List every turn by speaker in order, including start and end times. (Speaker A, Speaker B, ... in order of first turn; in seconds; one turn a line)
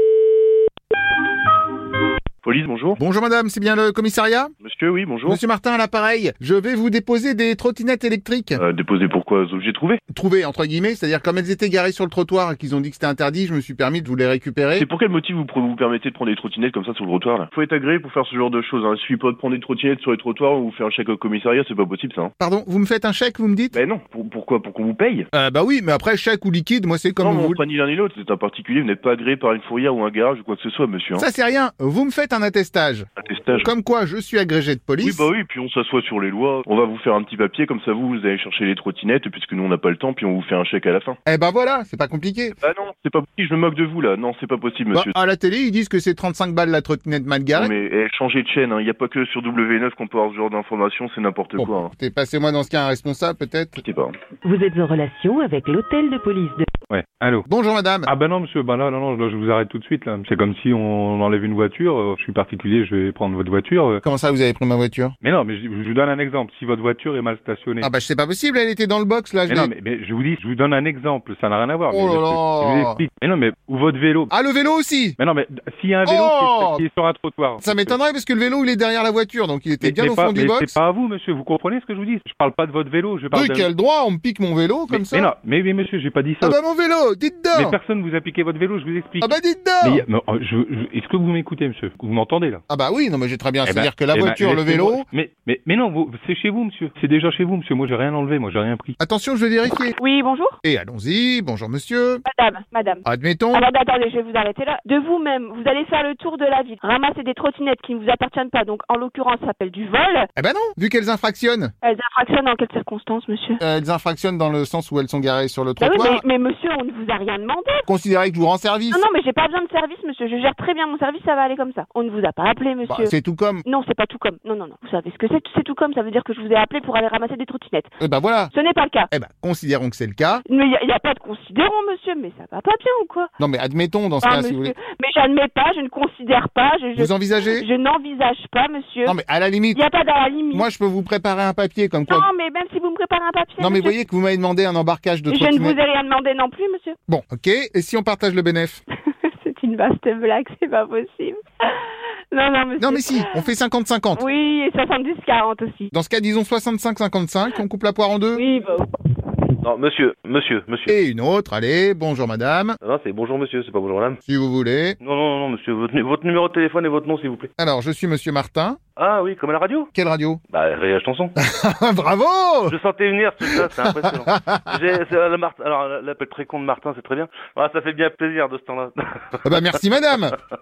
Speaker A: 2.4-3.0
Speaker B: 3.0-4.5
Speaker A: 4.6-5.4
Speaker B: 5.2-8.6
Speaker A: 8.6-10.0
Speaker B: 10.1-14.9
Speaker A: 14.8-22.3
Speaker B: 22.4-23.8
Speaker A: 23.7-25.3
Speaker B: 25.3-27.6
Speaker A: 27.2-31.3
Speaker B: 31.1-33.1
Speaker A: 33.2-33.7
Speaker B: 33.6-35.3
Speaker A: 35.0-41.2
Speaker B: 41.3-42.6
Speaker A: 42.6-45.1
Speaker B: 44.9-47.7
Speaker A: 47.5-51.9
Speaker B: 51.6-53.8
Speaker A: 53.8-54.1
Speaker C: 54.4-56.7
Speaker D: 56.9-57.5
Speaker B: 57.5-58.1
Speaker D: 58.1-64.0
Speaker B: 64.0-65.2
Speaker D: 65.2-67.9
Speaker B: 67.8-69.7
Speaker D: 69.5-74.3
Speaker B: 71.9-73.0
Speaker B: 74.3-75.2
Speaker D: 75.2-78.0
Speaker B: 76.0-76.8
Speaker B: 77.6-80.8
Speaker D: 79.8-83.7
Speaker B: 83.3-85.3
Speaker D: 84.9-86.6
Speaker B: 86.4-87.8
Speaker D: 87.5-92.6
Speaker B: 89.2-90.1
Speaker B: 92.7-95.1
Speaker D: 93.7-99.0
Speaker B: 99.0-100.0
Speaker E: 100.0-100.6
Speaker B: 100.6-102.2
Speaker E: 102.3-110.3
Speaker B: 103.0-103.7
Speaker B: 110.3-111.7
Speaker E: 111.8-113.6
Speaker B: 113.6-116.2
Speaker E: 115.8-117.8
Speaker B: 117.9-119.0
Speaker E: 118.9-123.1
Speaker B: 122.8-123.7
Speaker E: 123.7-127.9
Speaker B: 128.0-128.5
Speaker E: 128.5-129.1
Speaker B: 129.1-130.4
Speaker E: 130.5-133.3
Speaker B: 133.4-134.8
Speaker E: 134.2-139.2
Speaker B: 136.9-137.7
Speaker B: 139.1-139.8
Speaker E: 139.7-140.7
Speaker B: 140.5-142.3
Speaker E: 142.1-144.0
Speaker B: 143.6-145.8
Speaker E: 145.3-147.0
Speaker B: 147.1-148.8
Speaker E: 149.2-151.7
Speaker E: 152.3-153.4
Speaker B: 152.8-154.2
Speaker E: 154.2-155.9
Speaker B: 155.9-158.5
Speaker E: 158.4-158.8
Speaker F: 159.6-160.9
Speaker B: 160.9-162.8
Speaker F: 162.8-164.2
Speaker B: 164.2-165.0
Speaker F: 165.0-167.5
Speaker B: 167.6-168.8
Speaker F: 169.0-169.9
Speaker B: 169.9-170.4
Speaker F: 170.5-171.3
Speaker B: 171.4-172.8
Speaker F: 172.7-179.6
Speaker B: 173.5-174.8
Speaker B: 179.4-180.4